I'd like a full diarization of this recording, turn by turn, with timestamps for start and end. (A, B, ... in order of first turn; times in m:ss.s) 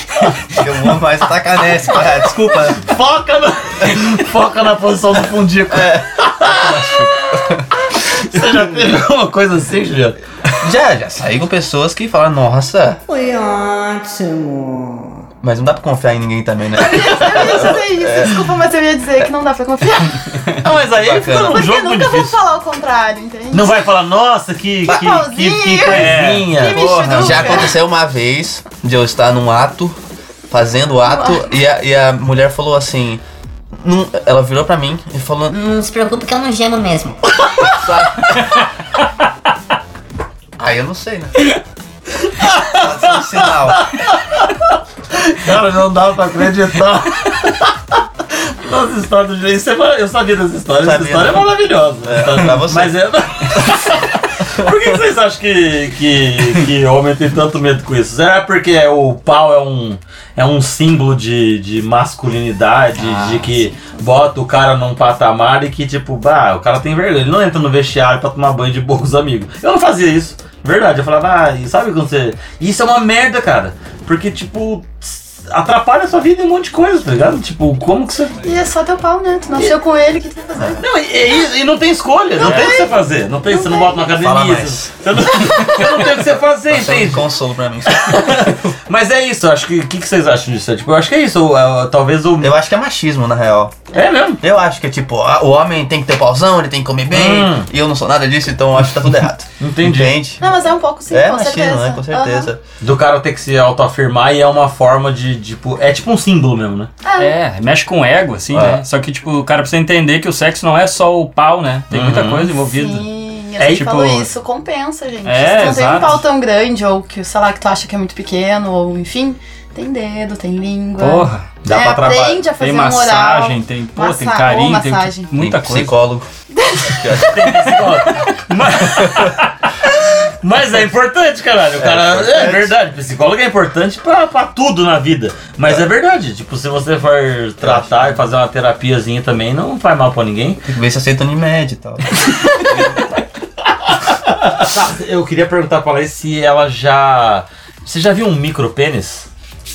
0:00.5-0:02.9 A
0:02.8-0:06.8 B
0:05.7-0:07.6 A
0:08.0-0:10.2 B
0:10.5-0:13.0 A
0:13.1-0:15.2 C
0:15.4-0:18.4 A
0:16.8-0:20.4 D
0:20.6-0:22.4 B
0:20.9-0:21.6 A
0:21.1-0:23.9 D
0:23.5-0:27.6 B
0:24.8-0:27.7 D
0:25.9-0:26.4 E
0:26.1-0:30.0 A
0:30.5-0:33.2 A
0:31.0-0:31.5 D
0:33.8-0:35.5 A
0:35.5-0:37.2 C
0:37.7-0:38.5 A
0:40.6-0:41.3 A
0:42.2-0:44.5 B
0:42.6-0:43.8 A
0:45.1-1:18.4 B
0:50.8-0:53.0 A
1:03.0-1:03.6 E
1:18.4-1:20.8 D
1:20.8-1:27.2 B
1:22.4-1:24.1 D
1:24.1-1:24.9 A
1:26.7-1:28.5 A
1:27.8-1:32.5 B
1:32.4-1:33.8 A
1:33.9-1:34.4 B
1:34.4-1:40.5 A
1:37.1-1:37.7 B
1:39.6-1:40.2 B
1:40.4-1:42.5 D
1:41.1-1:42.6 A
1:42.8-1:46.9 B
1:47.0-1:47.3 D
1:47.2-1:53.0 E
1:48.5-1:48.8 A
1:51.9-1:52.5 B
1:52.6-2:05.3 D
1:53.6-1:54.3 E
1:55.2-1:56.2 E
2:01.0-2:01.5 E
2:01.6-2:02.4 B
2:02.5-2:06.0 E
2:05.4-2:06.3 A
2:06.5-2:07.3 D
2:06.8-2:07.5 A
2:07.3-2:09.5 B
2:10.2-2:20.6 B
2:11.8-2:12.8 A
2:17.6-2:18.2 A
2:20.6-2:23.0 A
2:24.1-2:29.2 B